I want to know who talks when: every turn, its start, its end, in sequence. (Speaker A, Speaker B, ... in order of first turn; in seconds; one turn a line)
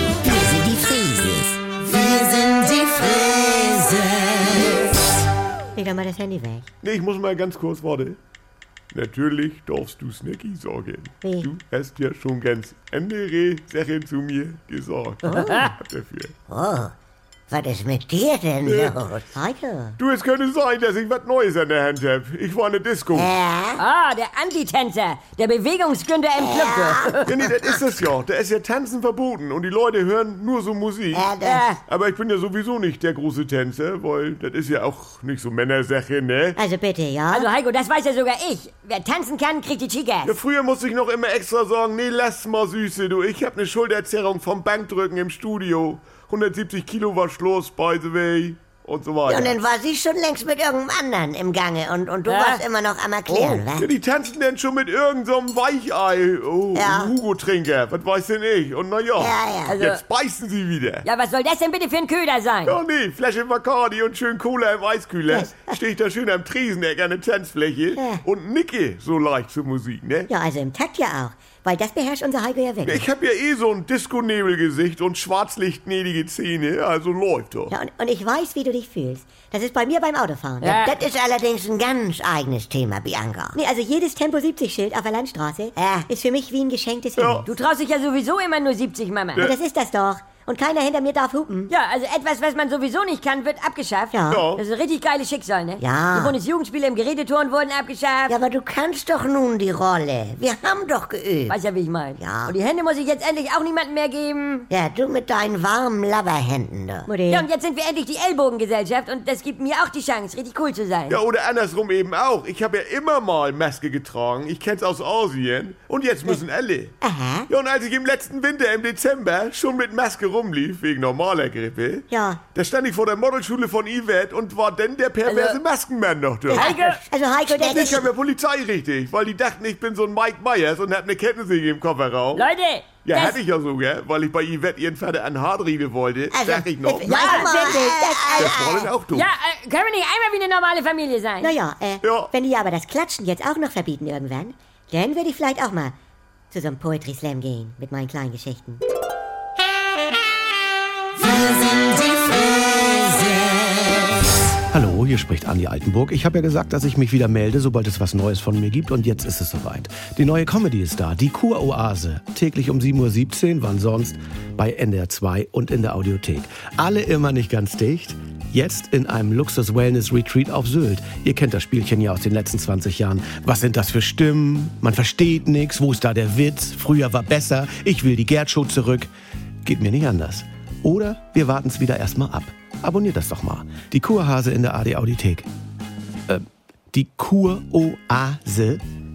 Speaker A: 0.2-4.7
Speaker B: 5.7-6.7
Speaker C: 6.8-8.2
Speaker C: 8.9-16.3
Speaker B: 11.2-11.5
Speaker D: 15.3-15.7
Speaker A: 16.5-16.9
Speaker A: 17.5-19.3
Speaker C: 18.6-19.0
Speaker B: 19.3-20.0
Speaker C: 20.0-23.3
Speaker A: 23.1-23.8
Speaker D: 23.8-27.4
Speaker A: 26.4-27.7
Speaker C: 27.3-36.6
Speaker A: 31.1-31.8
Speaker D: 31.4-31.8
Speaker B: 36.5-37.5
Speaker D: 37.3-40.4
Speaker C: 40.2-49.6
Speaker A: 49.2-53.9
Speaker D: 52.2-52.6
Speaker C: 53.3-61.0
Speaker A: 56.7-57.1
Speaker A: 59.1-59.8
Speaker D: 59.7-60.0
Speaker D: 61.0-62.8
Speaker C: 62.6-70.3
Speaker B: 65.3-65.8
Speaker B: 67.9-68.2
Speaker B: 70.3-73.1
Speaker C: 72.8-77.7
Speaker B: 77.7-80.8
Speaker D: 80.6-80.9
Speaker A: 80.6-83.5
Speaker B: 83.5-87.5
Speaker A: 85.8-86.1
Speaker C: 87.2-87.4
Speaker D: 87.5-89.4
Speaker B: 89.4-91.7
Speaker D: 91.7-98.3
Speaker B: 94.1-94.4
Speaker C: 94.3-94.6
Speaker A: 95.8-96.3
Speaker A: 98.3-101.6
Speaker D: 101.5-104.7
Speaker A: 102.2-102.5
Speaker A: 104.7-107.1
Speaker B: 107.1-107.5
Speaker D: 107.3-111.2
Speaker C: 111.1-117.0
Speaker B: 117.0-117.5
Speaker C: 117.5-127.0
Speaker B: 122.1-122.4
Speaker D: 125.2-125.6
Speaker D: 126.5-127.0
Speaker B: 126.5-128.1
Speaker A: 127.5-128.0
Speaker C: 127.7-132.5
Speaker D: 132.3-133.4
Speaker C: 133.0-137.2
Speaker B: 136.3-138.8
Speaker A: 137.0-138.9
Speaker D: 137.1-137.9
Speaker C: 138.4-139.3
Speaker D: 139.1-141.5
Speaker B: 141.4-145.9
Speaker C: 142.0-142.3
Speaker B: 146.5-148.8
Speaker E: 154.7-179.1
Speaker E: 179.6-185.5
Speaker E: 186.3-188.8